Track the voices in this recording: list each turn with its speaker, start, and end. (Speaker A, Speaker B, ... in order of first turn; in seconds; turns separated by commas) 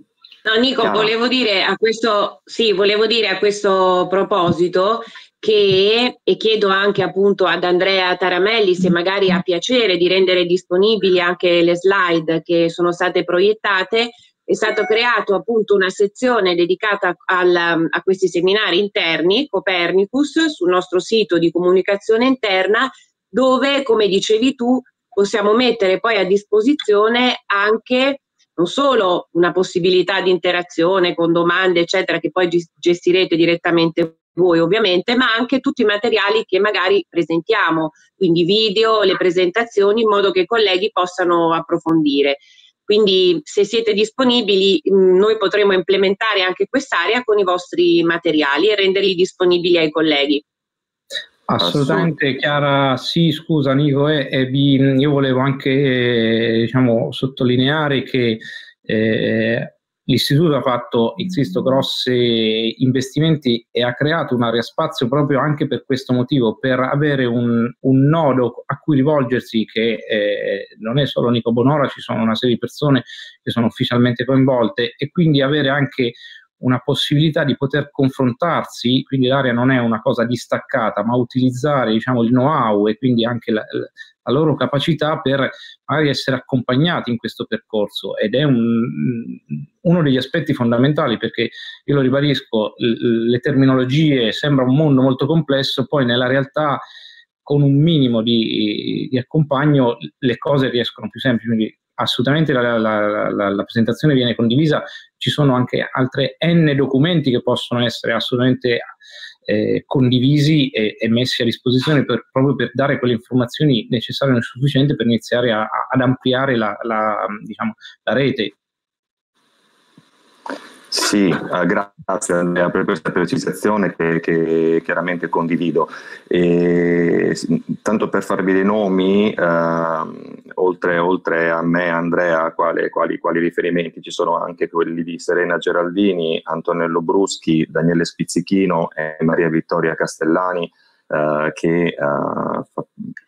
Speaker A: 0.4-50.4, Speaker B: 0.8-1.1, Speaker C: 51.5-96.8, Speaker B: 51.6-52.1, Speaker C: 97.4-108.8, Speaker C: 109.5-118.5, Speaker B: 120.9-142.9